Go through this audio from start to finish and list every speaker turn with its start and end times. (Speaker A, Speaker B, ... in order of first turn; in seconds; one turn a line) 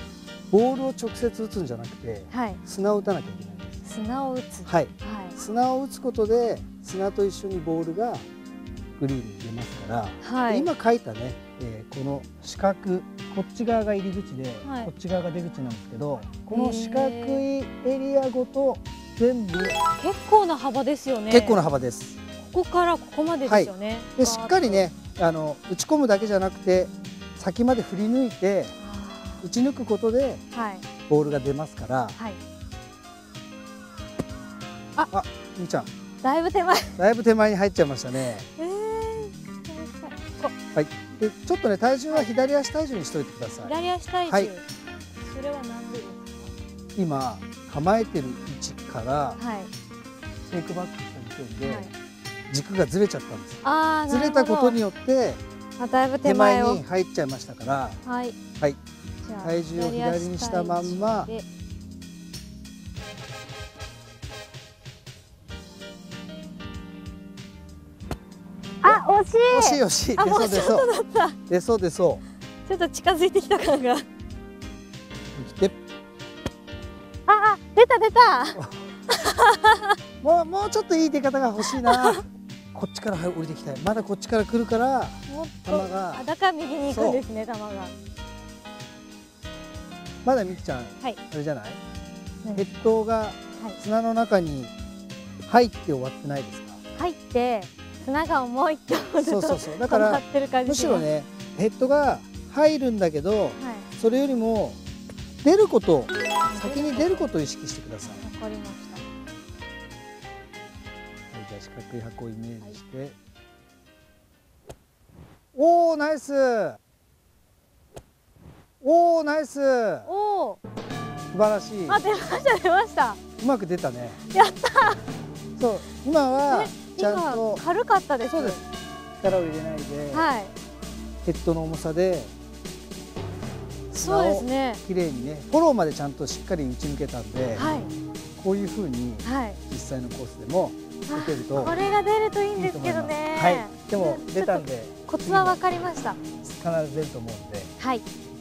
Speaker A: 0.5-3.8
Speaker B: 2.3-2.6
Speaker B: 3.9-5.4
Speaker A: 4.7-8.3
Speaker A: 9.0-19.8
Speaker B: 10.2-10.7
Speaker B: 14.6-14.9
Speaker B: 16.5-17.4
Speaker B: 20.0-21.6
Speaker A: 21.3-22.2
Speaker B: 22.4-24.9
Speaker A: 23.4-28.7
Speaker B: 28.8-29.5
Speaker A: 29.4-30.4
Speaker B: 30.5-30.8
Speaker A: 31.1-32.2
Speaker A: 35.1-35.9
Speaker B: 36.2-37.0
Speaker A: 37.0-38.5
Speaker B: 38.6-40.5
Speaker A: 40.7-43.8
Speaker B: 43.6-44.6
Speaker B: 45.2-46.5
Speaker A: 47.0-49.4
Speaker B: 49.4-49.7
Speaker A: 50.5-51.9
Speaker B: 51.6-51.9
Speaker A: 52.5-55.4
Speaker B: 53.6-54.8
Speaker B: 55.8-56.8
Speaker A: 56.2-58.0
Speaker B: 58.0-58.4
Speaker B: 59.2-61.5
Speaker A: 59.4-61.3
Speaker B: 68.8-71.4
Speaker A: 68.8-70.9
Speaker A: 71.5-72.2
Speaker B: 72.7-74.1
Speaker A: 75.3-75.7
Speaker B: 77.3-80.0
Speaker A: 80.2-86.3
Speaker B: 81.6-82.2
Speaker B: 85.3-87.9
Speaker A: 86.9-87.2
Speaker A: 90.2-91.8
Speaker A: 92.5-94.7
Speaker A: 95.5-96.8
Speaker B: 97.0-101.1
Speaker A: 99.2-104.8
Speaker B: 103.6-103.9
Speaker A: 105.4-108.2
Speaker B: 106.4-107.3
Speaker B: 108.0-109.0
Speaker A: 111.3-113.2
Speaker A: 115.5-116.8
Speaker A: 118.8-120.1
Speaker B: 120.1-120.6
Speaker A: 121.3-122.0
Speaker B: 121.9-123.2
Speaker A: 123.4-124.2
Speaker B: 124.3-125.1
Speaker A: 125.6-127.6
Speaker B: 126.5-128.6
Speaker A: 128.2-128.6
Speaker A: 129.2-130.3
Speaker B: 130.1-130.5
Speaker A: 131.2-132.3
Speaker A: 133.9-137.8
Speaker B: 134.0-134.8
Speaker B: 137.6-137.9
Speaker A: 138.4-141.8
Speaker B: 139.2-139.6
Speaker B: 141.1-146.2
Speaker A: 142.6-145.6
Speaker A: 146.4-147.7
Speaker B: 147.8-148.0